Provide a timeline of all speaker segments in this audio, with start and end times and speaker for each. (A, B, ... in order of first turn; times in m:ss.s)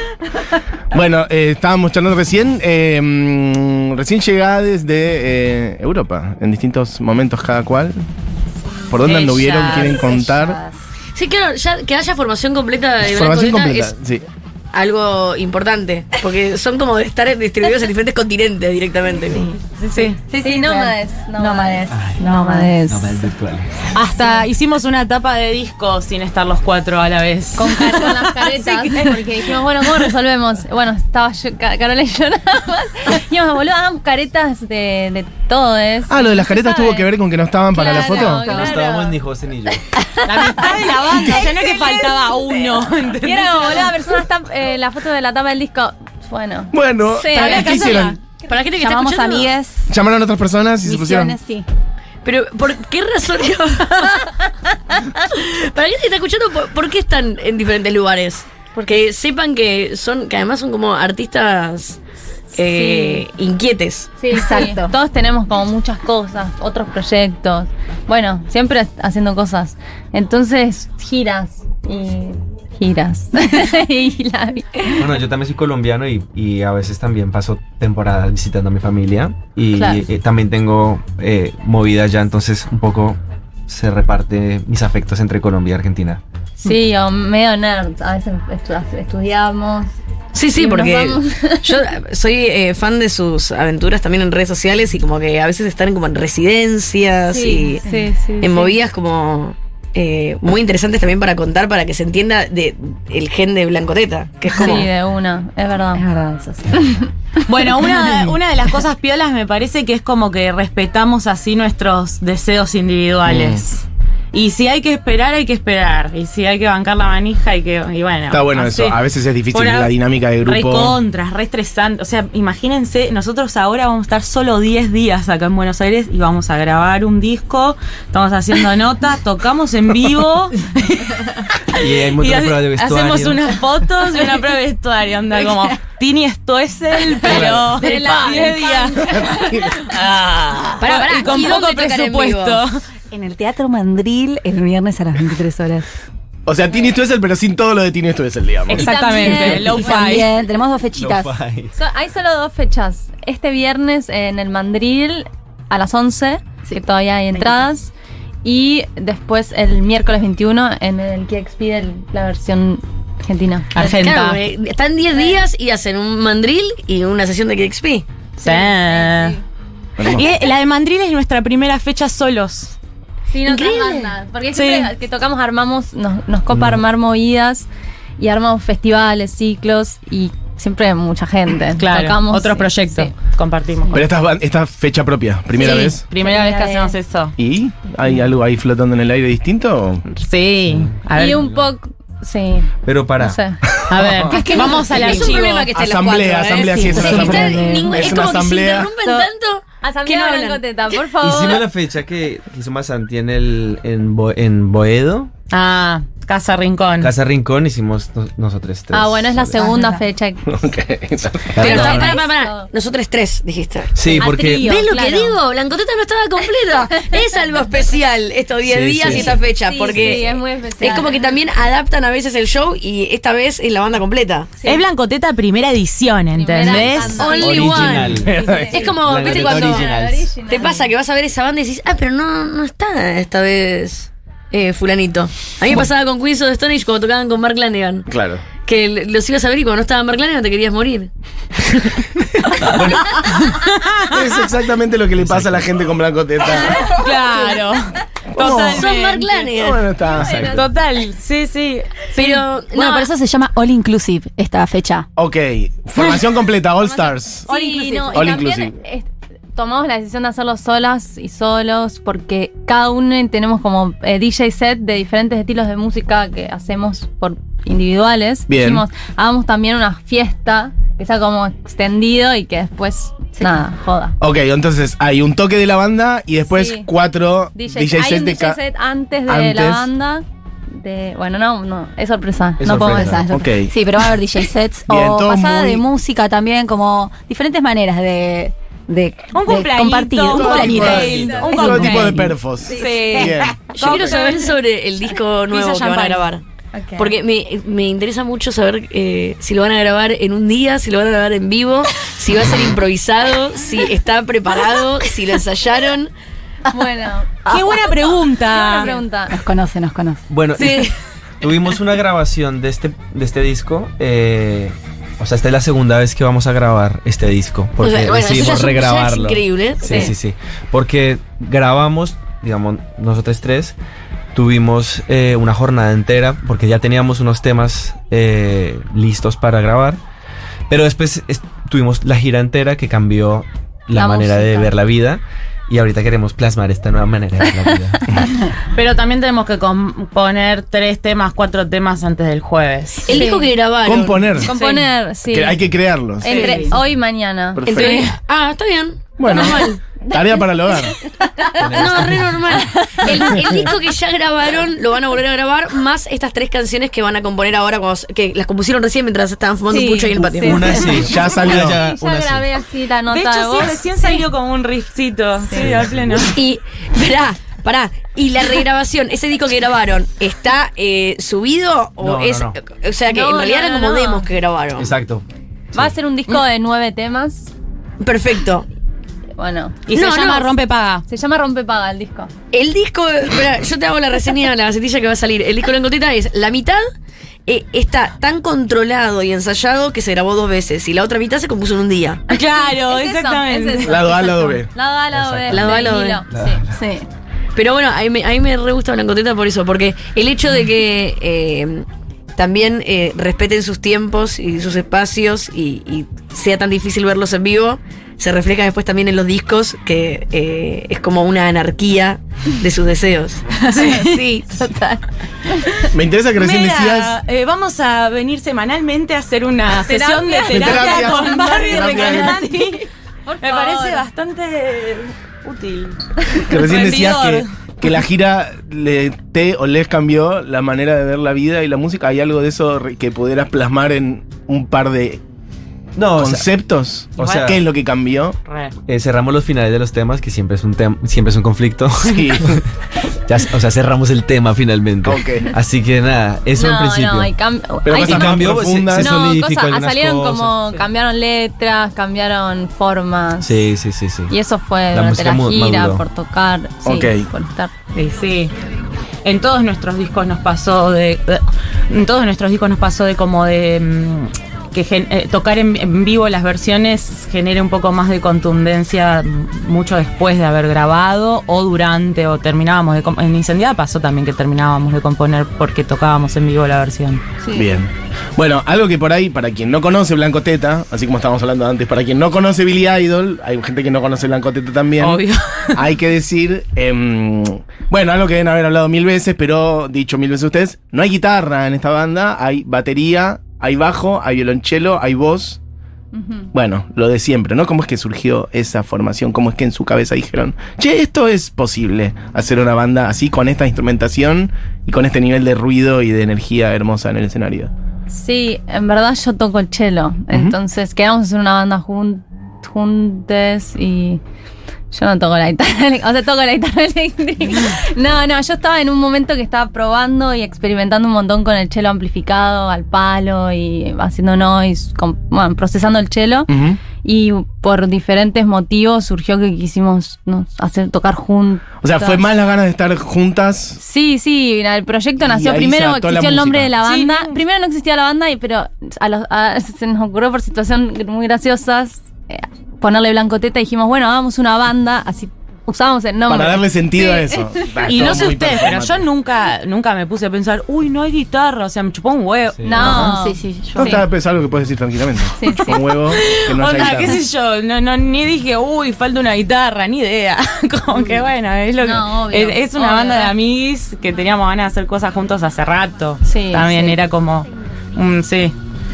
0:00.9-0:08.0 A
0:08.9-0:10.6 A
0:09.0-0:10.0 B
0:09.6-0:10.8 C
0:11.2-0:13.9 D
0:13.0-0:14.2 A
0:14.7-0:19.5 D
0:19.3-0:22.8 C
0:19.8-0:20.2 B
0:19.9-0:23.3 E
0:21.9-0:22.3 F
0:22.9-0:23.8 F
0:23.9-0:29.2 B
0:27.6-0:37.1 E
0:36.1-0:38.6 A
0:37.7-0:39.2 E
0:38.0-0:38.8 C
0:38.4-0:39.9 F
0:39.7-0:42.0 E
0:40.3-0:44.0 B
0:43.2-0:47.8 E
0:46.7-0:48.2 A
0:47.3-0:48.2 B
0:47.4-0:49.5 D
0:48.7-0:49.9 C
0:49.9-0:51.4 A
0:50.8-0:51.7 C
0:52.2-0:54.4 D
0:55.2-1:02.0 D
1:02.5-1:03.2 E
1:02.5-1:04.3 D
1:04.2-1:15.1 E
1:04.3-1:04.9 C
1:15.0-1:26.2 F
1:26.6-1:29.9 E
1:30.3-1:37.8 D
1:30.6-1:31.9 E
1:37.3-1:38.8 E
1:38.4-1:44.9 D
1:44.5-1:46.1 E
1:46.0-1:47.0 C
1:46.7-1:47.1 E
1:47.4-1:59.0 B
1:53.2-1:53.6 A
1:58.3-2:01.0 A
1:59.5-2:20.0 B
2:11.8-2:13.5 F
2:17.3-2:17.7 A
2:17.4-2:19.5 E
2:19.1-2:19.8 A
2:20.8-2:22.6 D
2:20.8-2:22.8 B
2:23.1-2:25.9 C
2:26.5-2:28.9 A
2:28.7-2:30.3 B
2:28.8-2:30.0 E
2:28.9-2:31.3 C
2:31.0-2:31.8 F
2:31.8-2:37.9 E
2:37.3-2:37.6 C
2:38.4-2:44.0 E
2:43.8-2:44.4 B
2:43.8-2:48.1 D
2:48.4-2:49.4 E
2:48.4-2:49.4 B
2:50.0-2:50.3 A
2:50.0-2:52.8 B
2:53.3-3:03.1 E
2:53.4-2:54.1 D
2:54.5-2:54.9 B
3:01.8-3:04.0 B
3:03.9-3:06.0 A
3:05.6-3:07.4 B
3:05.6-3:07.0 E
3:07.4-3:10.0 A
3:10.2-3:11.4 B
3:10.7-3:11.7 F
3:11.2-3:13.6 E
3:12.8-3:13.4 F
3:13.9-3:14.4 A
3:13.9-3:15.7 B
3:14.3-3:15.4 C
3:14.3-3:21.1 D
3:15.7-3:18.9 A
3:16.8-3:18.1 C
3:19.8-3:21.7 E
3:21.2-3:25.3 F
3:25.5-3:27.1 B
3:27.0-3:29.6 F
3:28.9-3:30.5 E
3:29.6-3:30.0 C
3:30.5-3:31.9 A
3:31.6-3:32.2 F
3:31.6-3:44.5 D
3:31.6-3:32.7 E
3:34.0-3:34.7 F
3:34.2-3:35.4 E
3:38.6-3:39.4 F
3:39.0-3:41.3 E
3:44.6-3:47.4 B
3:46.4-3:50.9 E
3:46.7-3:49.9 D
3:46.7-3:50.3 F
3:48.2-3:48.8 A
3:50.5-3:58.1 D
3:58.1-3:58.4 A
3:58.6-4:02.0 D
4:02.4-4:03.2 A
4:02.6-4:03.2 F
4:03.4-4:04.2 B
4:04.1-4:07.0 A
4:05.2-4:05.7 F
4:06.8-4:07.5 E
4:06.8-4:09.4 B
4:08.3-4:08.9 A
4:08.4-4:09.8 D
4:09.5-4:10.6 A
4:10.1-4:10.7 E
4:10.2-4:10.6 F
4:10.5-4:12.2 B
4:12.2-4:13.1 D
4:12.7-4:15.1 C
4:15.2-4:17.5 A
4:16.9-4:34.2 E
4:17.5-4:18.4 C
4:18.1-4:18.8 A
4:28.5-4:28.8 A
4:34.2-4:38.6 A
4:36.5-4:36.9 E
4:37.6-4:43.2 E
4:39.3-4:39.9 A
4:42.6-4:43.2 F
4:42.7-4:52.4 C
4:43.3-4:43.7 A
4:44.9-4:45.9 A
4:49.3-4:54.6 B
4:50.3-4:53.6 A
4:50.9-4:51.8 E
4:52.6-4:54.3 E
4:53.7-4:56.4 D
4:55.5-4:56.3 B
4:56.7-4:57.2 E
4:57.0-5:06.1 D
5:06.7-5:07.5 E
5:07.5-5:09.0 B
5:08.5-5:09.4 E
5:09.3-5:10.2 C
5:10.3-5:10.9 F
5:11.4-5:23.8 F
5:17.8-5:20.1 D
5:24.3-5:30.0 F
5:30.7-5:38.2 F
5:34.0-5:34.7 E
5:38.7-5:43.2 B
5:43.1-5:44.3 D
5:43.1-5:43.5 E
5:43.8-5:44.5 A
5:44.4-5:45.6 E
5:44.5-5:44.9 B
5:45.3-5:46.6 A
5:46.2-5:48.1 E
5:46.3-5:46.8 B
5:47.6-5:48.1 A
5:47.7-5:49.8 D
5:49.2-5:51.0 A
5:50.7-5:53.7 E
5:51.6-5:52.5 F
5:51.6-6:01.0 D
5:59.7-6:04.2 E
6:00.4-6:02.5 F
6:00.9-6:01.8 A
6:03.1-6:06.4 B
6:05.5-6:06.3 F
6:06.3-6:14.9 D
6:12.0-6:12.6 F
6:13.1-6:14.3 E
6:14.8-6:15.9 F
6:15.7-6:17.5 E
6:18.0-6:18.7 D
6:19.4-6:19.8 E
6:19.9-6:21.0 B
6:19.9-6:20.5 D
6:21.1-6:22.3 E
6:22.5-6:26.8 D
6:27.5-6:32.2 D
6:32.3-6:34.0 B
6:32.3-6:37.0 E
6:33.8-6:34.7 A
6:35.1-6:36.8 F
6:35.5-6:36.2 D
6:37.6-6:53.5 D
6:53.7-6:54.5 B
6:53.7-6:54.2 C
6:53.9-6:54.9 E
6:55.9-6:57.2 A
6:56.4-7:02.8 B
6:59.9-7:04.1 E
7:00.5-7:02.4 A
7:03.4-7:07.5 B
7:06.4-7:15.2 A
7:16.0-7:16.5 F
7:16.2-7:18.4 A
7:17.2-7:17.6 F
7:17.2-7:17.5 B
7:18.5-7:18.8 B
7:18.9-7:22.7 F
7:22.0-7:22.6 A
7:23.3-7:27.3 F
7:25.0-7:25.5 A
7:26.6-7:33.7 E
7:27.9-7:29.1 A
7:27.9-7:30.7 F
7:33.4-7:34.4 F
7:34.3-7:37.7 E
7:34.9-7:36.0 F
7:36.8-7:37.3 A
7:38.0-7:38.5 B
7:39.2-7:57.2 B
7:57.4-7:57.7 E
7:57.5-8:15.6 A
8:05.0-8:05.8 B
8:16.1-8:16.5 E
8:16.5-8:27.7 A
8:28.1-8:34.2 E
8:34.9-8:52.3 E
8:46.5-8:46.8 A
8:51.8-8:53.8 A
8:53.8-9:07.7 E
8:55.2-8:56.7 A
8:56.8-8:57.4 B
9:06.3-9:09.1 A
9:07.8-9:12.7 B
9:12.6-9:13.0 F
9:12.6-9:14.0 E
9:12.8-9:13.1 A
9:12.8-9:14.0 C
9:13.8-9:17.2 A
9:15.4-9:15.8 E
9:15.6-9:28.6 B
9:21.8-9:23.3 E
9:26.2-9:27.0 E